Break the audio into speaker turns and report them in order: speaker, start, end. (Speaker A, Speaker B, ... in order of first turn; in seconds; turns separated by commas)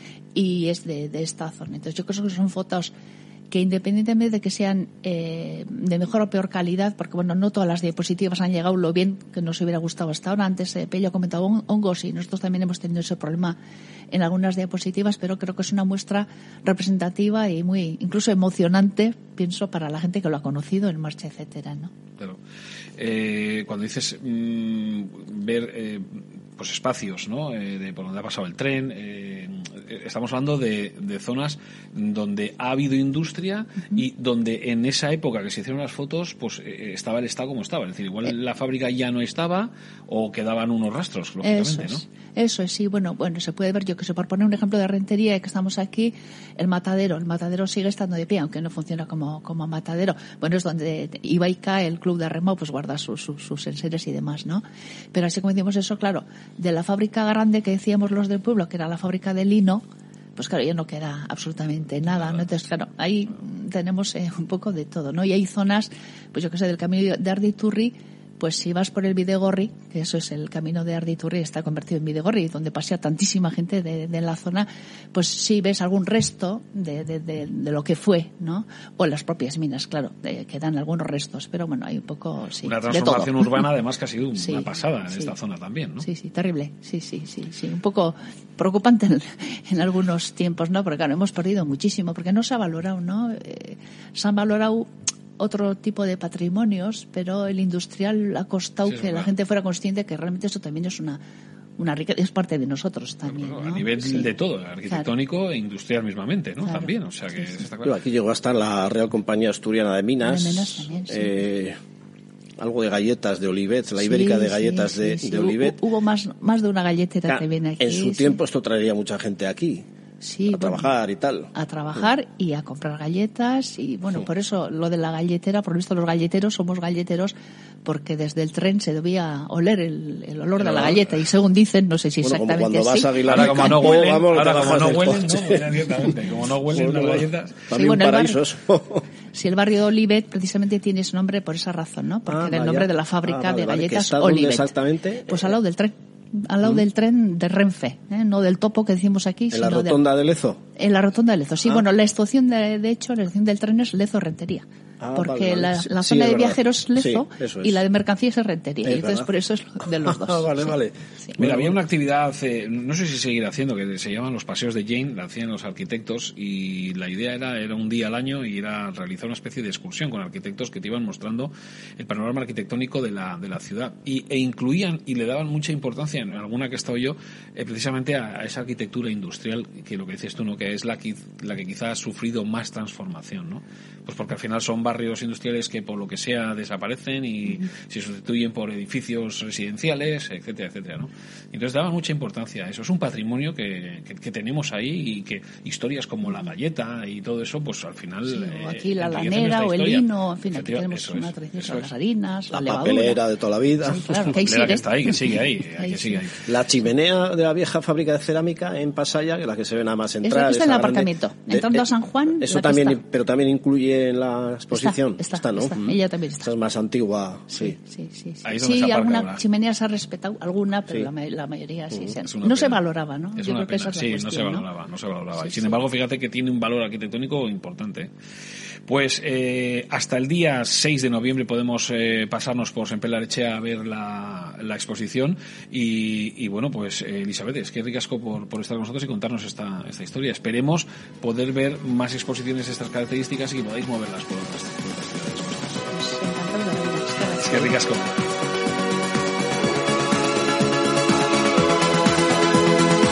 Speaker A: 0.3-2.9, Speaker A: 3.5-13.6, Speaker A: 14.1-21.9, Speaker B: 23.0-42.0, Speaker A: 41.4-59.8, Speaker A: 60.4-83.6, Speaker B: 82.6-86.0, Speaker A: 84.4-85.3, Speaker A: 86.0-101.2, Speaker B: 98.9-99.3, Speaker A: 101.8-104.3, Speaker B: 103.3-108.0, Speaker A: 106.6-107.6, Speaker C: 107.8-111.8, Speaker A: 110.2-111.4, Speaker C: 112.6-115.8, Speaker A: 114.0-118.4, Speaker C: 117.3-119.8, Speaker A: 120.2-120.9, Speaker C: 120.5-121.5, Speaker A: 121.5-134.1, Speaker B: 130.6-131.1, Speaker C: 132.2-135.7, Speaker B: 133.2-137.7, Speaker C: 136.7-139.0, Speaker A: 137.7-138.4, Speaker A: 139.3-144.7, Speaker C: 142.3-145.5, Speaker A: 145.2-150.0, Speaker C: 149.5-150.6, Speaker A: 150.8-161.3, Speaker C: 155.0-157.8, Speaker C: 158.8-159.3, Speaker C: 160.0-161.8, Speaker B: 161.4-201.9, Speaker A: 198.3-203.2, Speaker C: 202.5-204.4, Speaker A: 203.8-205.2, Speaker B: 204.3-206.5, Speaker A: 205.8-206.2, Speaker C: 206.5-217.8, Speaker A: 210.2-213.0, Speaker A: 214.7-216.5, Speaker A: 217.5-224.7, Speaker B: 218.4-219.4, Speaker B: 222.2-222.8, Speaker B: 223.3-228.1, Speaker A: 225.3-225.8, Speaker B: 228.8-245.9, Speaker A: 245.9-247.8, Speaker B: 247.4-248.3